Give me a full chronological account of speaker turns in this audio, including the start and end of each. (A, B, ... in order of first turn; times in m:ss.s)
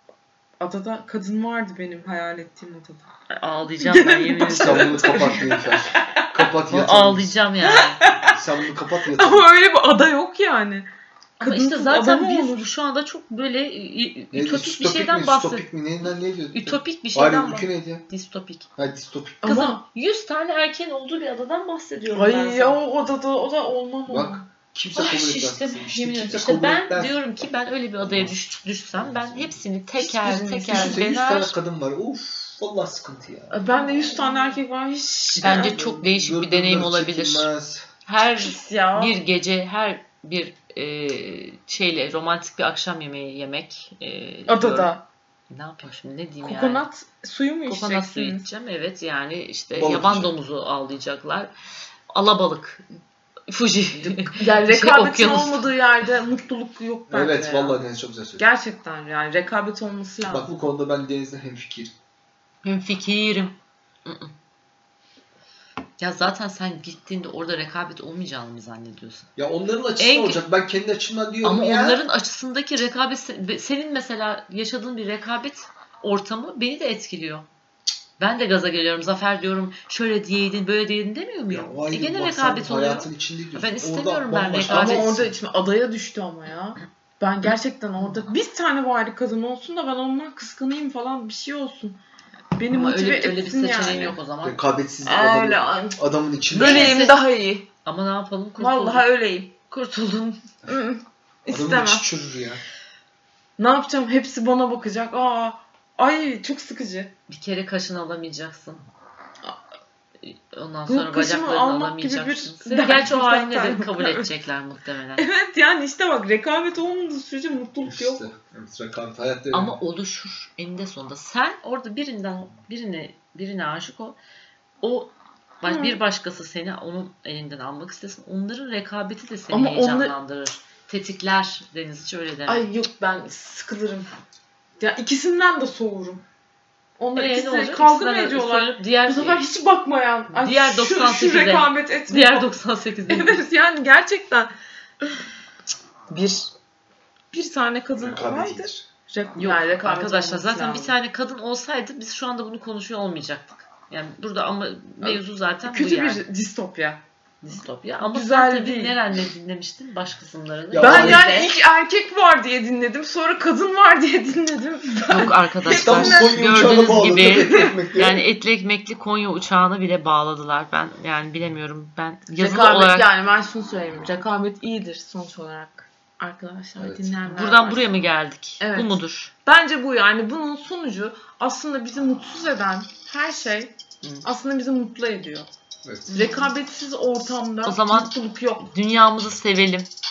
0:00.6-0:03.1 A
0:03.3-0:05.3 B
0:03.8-0:06.3 A
0:04.5-0:07.3 C
0:06.7-0:08.0 B
0:07.6-0:08.4 A
0:08.3-0:09.5 C
0:09.1-0:10.9 A
0:11.4-0:12.6 A
0:11.4-0:15.6 B
0:14.3-0:18.0 C
0:16.5-0:18.7 B
0:18.8-0:19.4 C
0:19.4-0:19.8 A
0:19.4-0:22.8 B
0:22.1-0:24.4 A
0:24.1-0:27.1 C
0:24.9-0:31.5 B
0:28.0-0:29.6 C
0:30.0-0:31.0 A
0:30.7-0:33.5 C
0:33.5-0:35.8 A
0:35.4-0:37.5 B
0:35.4-0:37.9 C
0:38.0-0:44.9 B
0:38.3-0:39.2 A
0:44.5-0:45.0 A
0:45.5-0:46.8 B
0:46.4-0:48.5 A
0:47.7-0:51.5 B
0:49.7-0:50.3 C
0:52.1-0:52.8 B
0:53.5-0:55.7 B
0:54.0-0:57.8 A
0:57.1-0:58.4 C
0:58.4-1:00.5 A
1:00.3-1:01.9 C
1:02.6-1:04.3 B
1:06.0-1:09.3 B
1:09.4-1:12.0 C
1:10.0-1:10.4 B
1:11.4-1:17.4 B
1:18.2-1:25.2 B
1:21.5-1:25.3 C
1:24.6-1:32.0 A
1:32.5-1:34.2 A
1:32.7-1:34.6 B
1:34.4-1:37.1 C
1:35.0-1:36.0 A
1:36.5-1:37.2 B
1:36.5-1:37.7 A
1:37.8-1:39.1 B
1:38.6-1:39.7 A
1:39.7-1:40.4 B
1:40.6-1:42.1 A
1:41.5-1:42.6 C
1:43.6-1:47.1 A
1:47.3-1:48.8 B
1:50.2-1:55.3 B
1:50.9-1:54.3 A
1:55.2-1:58.2 A
1:57.9-1:59.7 C
1:59.5-2:04.2 B
2:04.8-2:12.7 B
2:05.6-2:06.0 A
2:09.5-2:10.1 A
2:12.5-2:14.1 A
2:14.8-2:16.2 A
2:17.0-2:22.5 A
2:17.1-2:19.4 B
2:20.3-2:23.4 B
2:23.1-2:25.1 A
2:26.1-2:26.5 A
2:27.3-2:30.9 A
2:28.0-2:28.8 C
2:29.4-2:36.2 B
2:35.0-2:37.0 A
2:37.4-2:41.5 B
2:38.0-2:39.0 A
2:40.7-2:41.4 C
2:40.8-2:47.8 A
2:45.1-2:53.1 B
2:45.7-2:48.2 C
2:52.4-2:57.9 A
2:56.8-2:57.1 C
2:57.2-2:59.3 B
2:58.6-3:05.5 A
3:05.8-3:06.1 C
3:06.1-3:08.7 A
3:06.1-3:06.5 B
3:07.6-3:08.1 B
3:08.6-3:09.9 B